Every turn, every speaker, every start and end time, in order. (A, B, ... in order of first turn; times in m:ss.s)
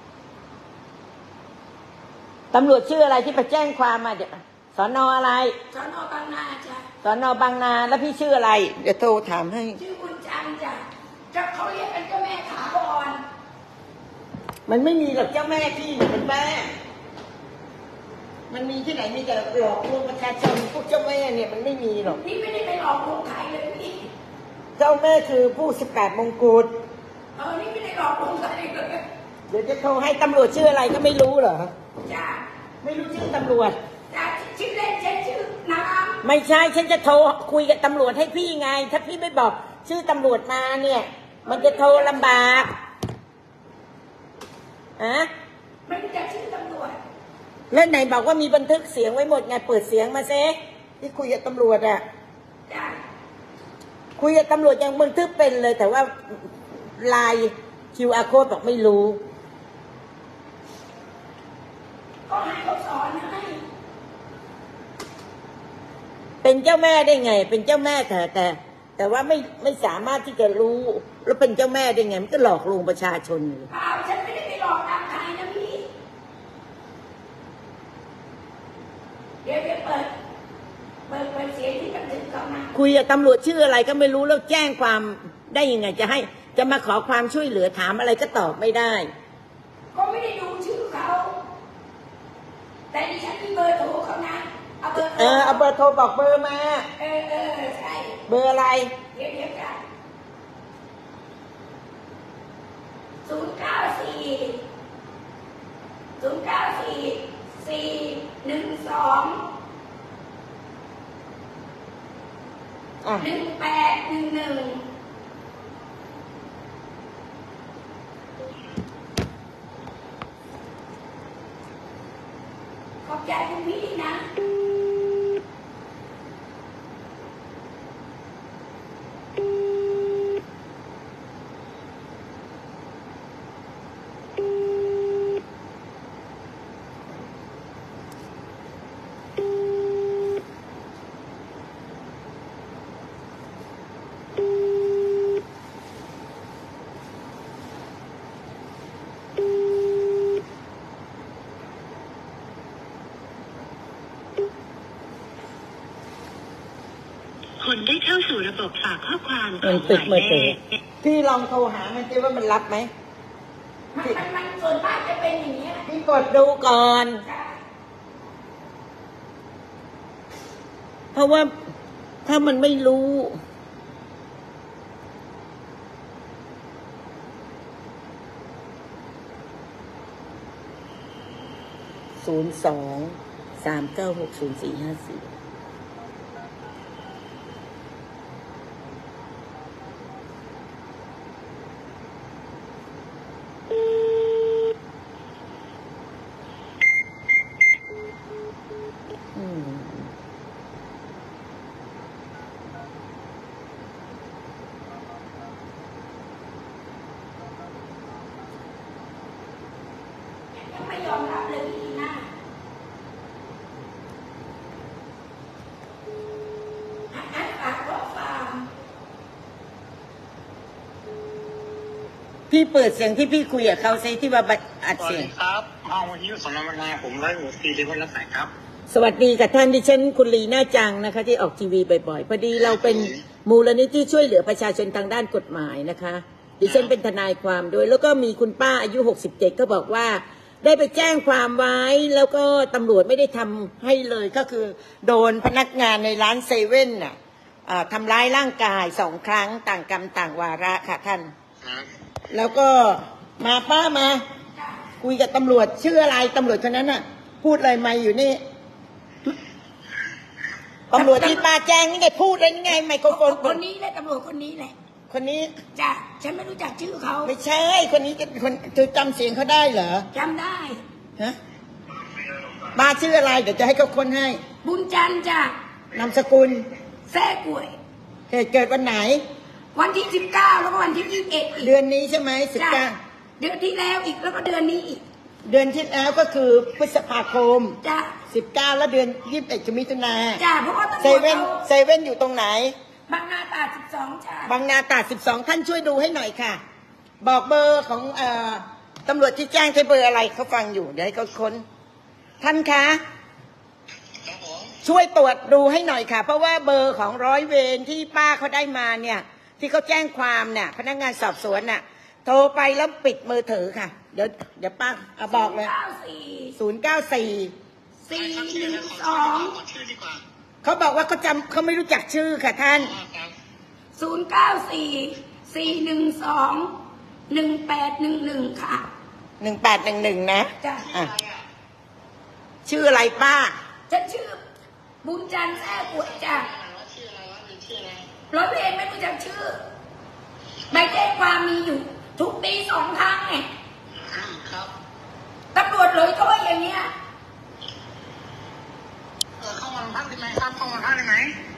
0:02.5-0:05.5 A
0:05.7-0:06.9 B
0:07.0-0:09.8 A
0:09.8-0:13.2 B
0:14.7-0:16.7 A
0:18.5-0:22.2 A
0:22.0-0:24.1 B
0:24.8-0:26.7 A
0:27.4-0:29.0 B
0:29.5-0:31.7 A
0:32.0-0:32.4 B
0:32.8-0:33.7 A
0:34.1-0:36.2 B
0:36.2-0:42.7 A
0:41.4-0:42.7 B
0:45.0-0:45.3 A
0:45.9-0:47.0 B
0:47.7-0:52.0 A
0:52.7-0:53.0 B
0:54.2-0:56.4 A
0:57.0-0:59.2 A
1:02.3-1:03.6 B
1:06.4-1:13.7 A
1:13.7-1:15.9 B
1:19.4-1:20.1 B
1:21.1-1:22.7 B
1:22.7-1:29.1 A
1:29.9-1:31.4 B
1:32.9-1:35.7 B
1:35.0-1:36.8 A
1:37.0-1:38.2 B
1:38.3-1:38.9 A
1:39.1-1:39.8 B
1:43.2-1:44.6 B
1:46.2-1:49.5 B
1:53.0-1:53.3 A
1:53.2-1:54.9 B
2:03.0-2:04.3 B
2:37.6-2:40.6 C
2:39.6-2:42.9 A
2:43.9-2:45.8 B
2:45.9-2:47.2 A
2:47.2-2:47.6 B
2:51.1-2:51.5 A
2:52.2-2:53.4 A
3:02.2-3:05.3 A
3:19.3-3:20.1 A
3:30.5-3:32.3 B
3:37.1-3:38.7 B
3:42.5-3:45.3 A
3:45.0-3:48.5 D
3:48.9-4:07.1 A
4:07.7-4:11.3 A
4:11.6-4:11.9 D
4:12.3-4:14.2 A
4:14.6-4:14.8 B
4:15.0-4:18.4 A
4:20.9-4:23.6 A
4:20.9-4:21.4 B
4:23.1-4:24.7 B
4:25.1-4:25.5 A
4:25.8-4:27.3 B
4:27.2-4:30.0 A
4:30.1-4:30.8 B
4:32.7-4:34.4 A
4:34.6-4:35.5 B
4:35.9-4:36.6 A
4:37.1-4:37.8 B
4:38.3-4:39.2 A
4:39.7-4:41.7 B
4:41.6-4:43.0 A
4:42.5-4:42.8 B
4:43.4-4:45.0 B
4:45.4-4:47.8 A
4:47.8-4:48.2 B
4:48.3-4:50.4 A
4:50.4-4:51.6 B
4:51.0-4:52.7 A
4:53.1-4:54.5 B
4:54.4-4:56.6 A
4:57.2-5:01.6 A
5:02.4-5:03.0 A
5:04.8-5:15.7 A
5:15.3-5:16.6 B
5:16.6-5:17.5 A
5:18.1-5:19.6 B
5:18.1-5:20.2 D
5:20.6-5:23.0 A
5:23.0-5:23.3 D
5:24.0-5:26.8 B
5:27.3-5:28.9 B
5:29.4-5:31.1 A
5:30.6-5:30.9 B
5:32.6-5:33.5 A
5:33.9-5:34.4 B
5:35.0-5:36.5 B
5:36.5-5:38.0 D
5:38.3-5:39.6 B
5:40.7-5:43.5 B
5:44.1-5:44.7 D
5:45.5-5:46.9 B
5:49.4-5:51.4 D